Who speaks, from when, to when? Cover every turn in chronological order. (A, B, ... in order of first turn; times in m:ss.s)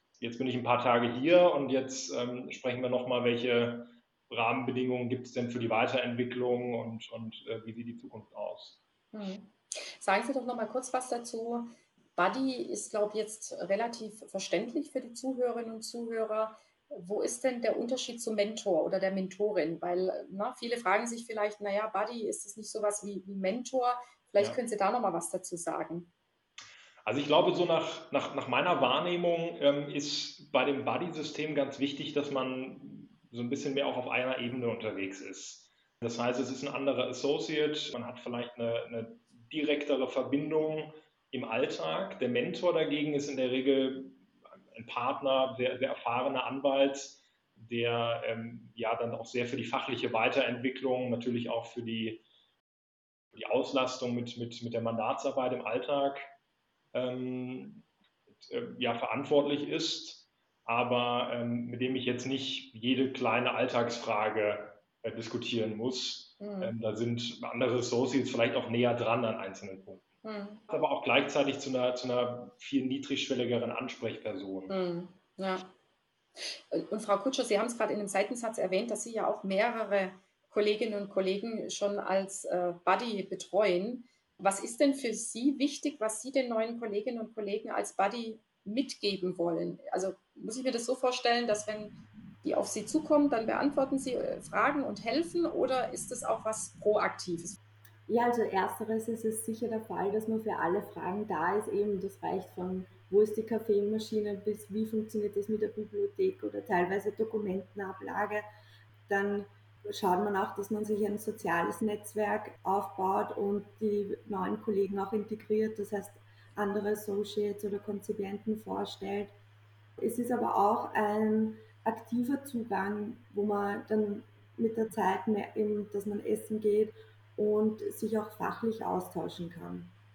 0:00.2-0:08.8 A
0:09.1-0:26.1 B
0:27.0-0:44.2 A
0:44.7-0:52.2 A
0:53.3-0:56.3 A
0:56.9-0:57.8 A
0:58.4-1:10.0 A
1:06.4-1:06.7 B
1:10.2-1:10.6 B
1:10.7-1:14.7 A
1:14.7-1:15.7 B
1:16.4-1:37.6 B
1:38.1-1:48.4 C
1:49.1-1:59.3 C
2:00.0-2:09.9 C